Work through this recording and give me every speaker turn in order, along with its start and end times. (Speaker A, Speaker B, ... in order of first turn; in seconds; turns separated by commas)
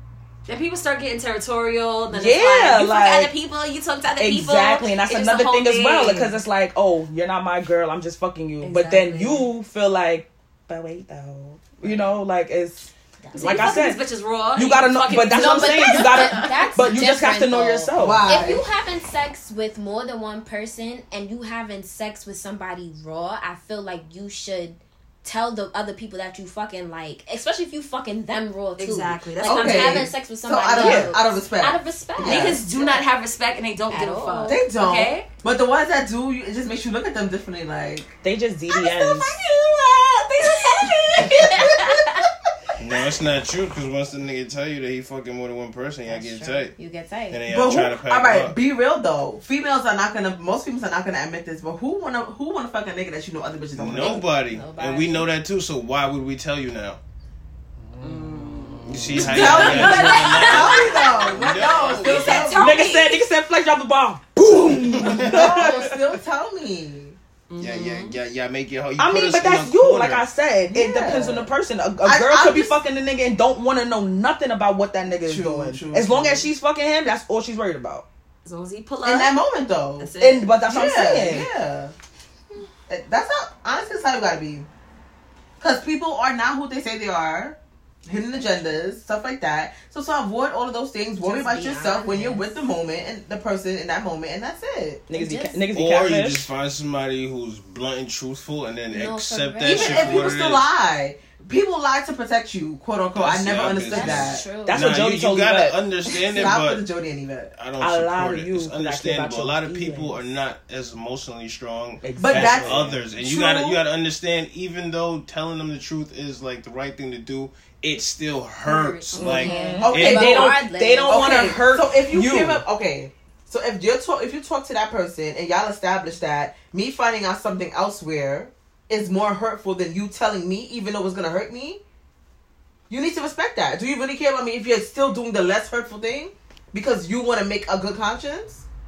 Speaker A: 0.5-6.4, Speaker B: 2.1-3.3, Speaker B: 4.2-14.0, Speaker A: 8.6-9.5, Speaker C: 13.2-13.9, Speaker A: 13.3-17.1, Speaker B: 14.5-18.3, Speaker C: 15.2-32.6, Speaker D: 18.0-18.6, Speaker A: 28.8-30.1, Speaker D: 29.4-33.0, Speaker B: 30.7-31.1, Speaker A: 32.2-35.3, Speaker C: 33.9-34.6, Speaker D: 34.5-38.1, Speaker B: 38.2-39.4, Speaker A: 38.9-42.2, Speaker D: 39.4-39.9, Speaker D: 40.4-41.7, Speaker E: 42.8-46.7, Speaker C: 46.1-47.5, Speaker E: 47.3-48.6, Speaker D: 47.5-54.3, Speaker E: 53.8-57.0, Speaker C: 54.0-55.3, Speaker B: 58.0-59.9, Speaker A: 58.0-63.2, Speaker E: 58.8-62.5, Speaker D: 59.1-62.9, Speaker C: 60.7-61.3, Speaker B: 62.5-66.1, Speaker E: 64.9-65.5, Speaker D: 65.0-67.2, Speaker A: 67.5-68.2, Speaker E: 67.6-70.2, Speaker B: 69.0-78.0, Speaker D: 70.7-72.8, Speaker D: 75.2-76.5, Speaker A: 78.4-79.4, Speaker D: 79.0-80.1, Speaker A: 80.0-80.5, Speaker B: 80.2-81.5, Speaker D: 80.6-81.9, Speaker D: 82.9-84.7, Speaker D: 85.6-95.0, Speaker C: 91.2-92.5, Speaker B: 95.1-96.5, Speaker C: 95.1-95.6, Speaker E: 95.7-100.7, Speaker C: 98.9-100.3, Speaker D: 99.6-104.5, Speaker E: 103.1-106.8, Speaker C: 103.9-105.0, Speaker B: 104.7-105.8, Speaker D: 106.2-107.5, Speaker E: 107.5-120.5, Speaker B: 107.8-110.2, Speaker B: 112.0-113.1, Speaker D: 112.2-113.8, Speaker C: 118.6-121.6, Speaker B: 119.1-122.6, Speaker A: 119.3-119.8, Speaker D: 119.8-131.8, Speaker D: 132.9-138.6